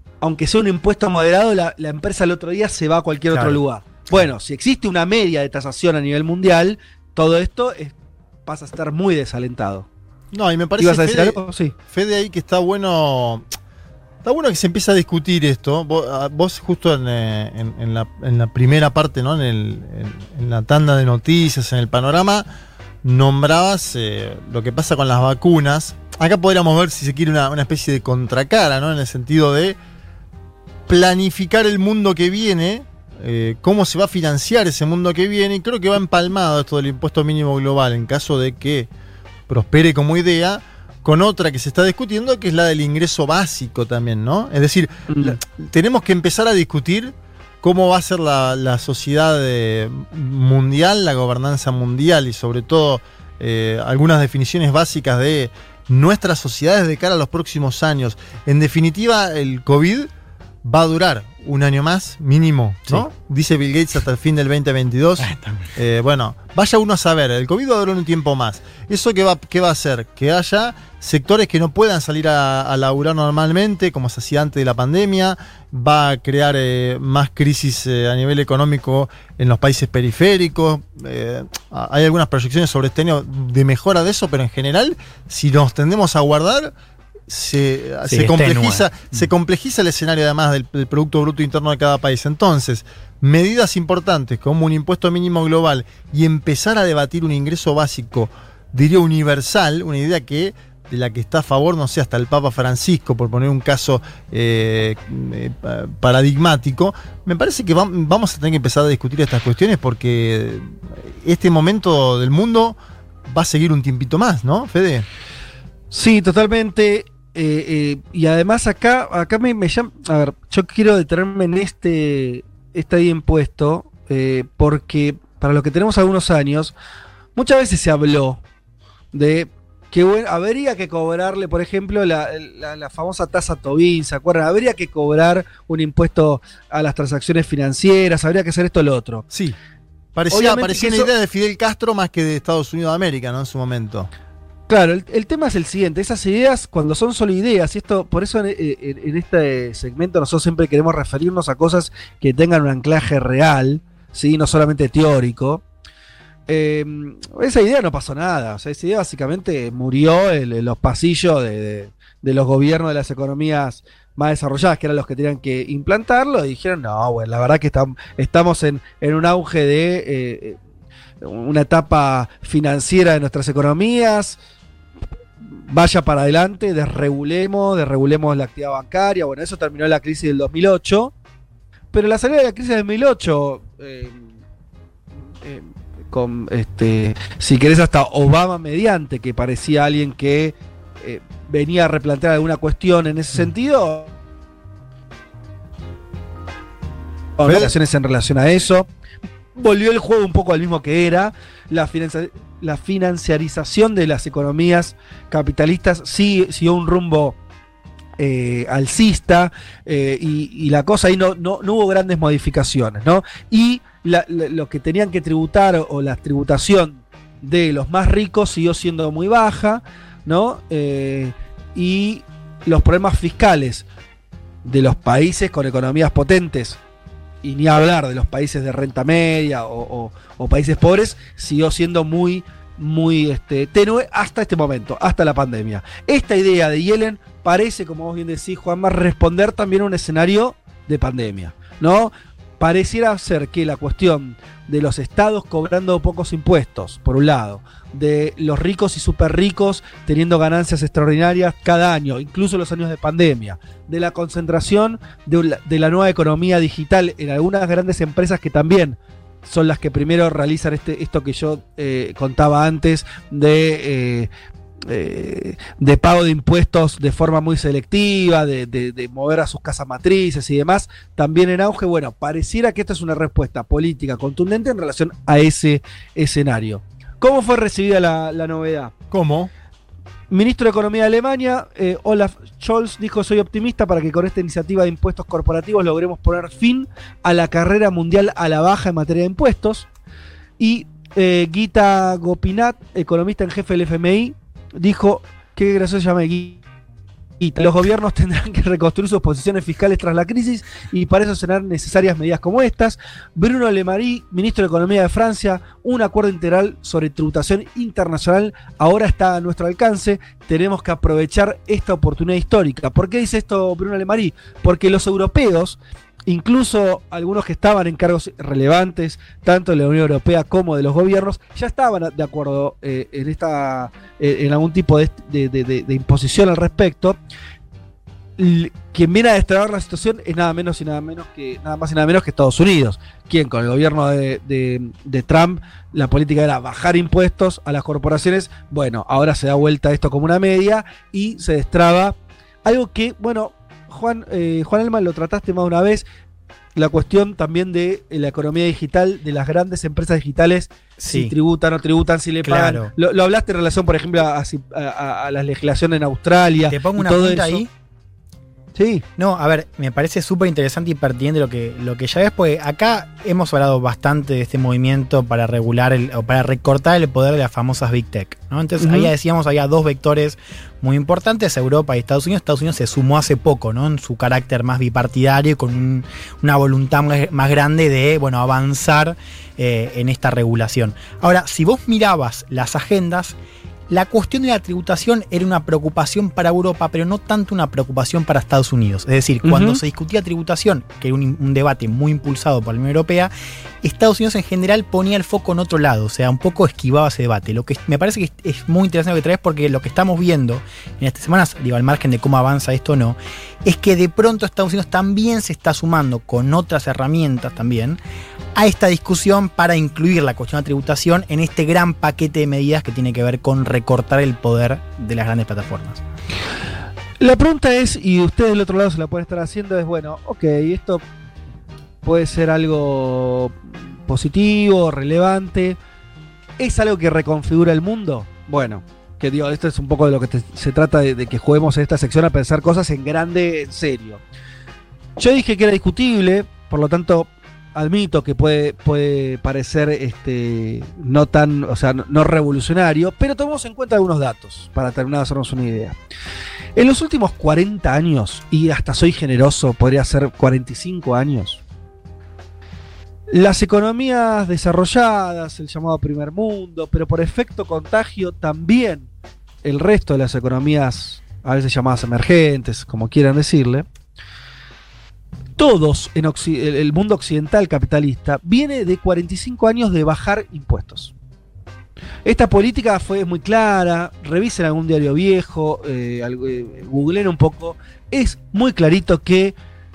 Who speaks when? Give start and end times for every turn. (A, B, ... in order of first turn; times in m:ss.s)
0:00.2-0:07.9 A
0:08.4-0:09.9 A
0:10.3-0:13.4 B
0:10.8-0:11.7 A
0:14.2-0:22.4 B
0:23.0-0:29.8 B
0:30.9-0:38.9 B
0:39.5-1:00.1 B
0:45.1-0:45.4 A
1:00.6-1:26.7 B
1:05.2-1:05.7 C
1:27.3-1:55.0 B
1:28.0-1:29.3 C
1:55.9-2:06.7 A
2:07.4-2:08.4 A
2:09.1-2:19.2 A
2:19.3-2:19.6 B
2:20.1-2:24.1 B
2:20.3-2:21.1 A
2:24.7-2:35.6 A
2:36.5-2:50.6 A
2:51.2-2:54.4 A
2:55.4-3:01.1 A
3:01.9-3:04.3 A
3:05.4-3:14.1 A
3:17.4-3:18.9 A
3:17.4-3:17.7 B
3:19.5-3:27.4 A
3:28.2-3:43.8 A
3:44.6-3:46.8 A
3:47.4-4:24.3 A
4:24.9-4:38.9 A
4:39.1-4:39.5 B
4:40.3-4:49.9 A
4:50.6-4:56.6 A
4:57.4-5:27.2 A
5:28.4-5:46.0 A
5:46.7-5:57.6 A
5:51.0-5:51.3 C
5:52.4-5:52.9 C
5:56.7-5:57.7 C
5:58.7-5:59.0 A
5:59.2-6:23.3 C
6:08.8-6:09.1 A
6:23.9-6:33.3 C
6:29.4-6:29.8 A
6:33.8-6:48.0 C
6:48.5-6:56.0 C
6:57.2-7:01.0 A
7:02.0-7:05.8 A
7:06.6-7:14.2 A
7:15.2-7:26.0 A
7:26.8-7:31.6 A
7:33.3-7:39.1 A
7:39.6-7:43.9 A
7:45.6-7:51.1 A
7:52.2-7:59.6 A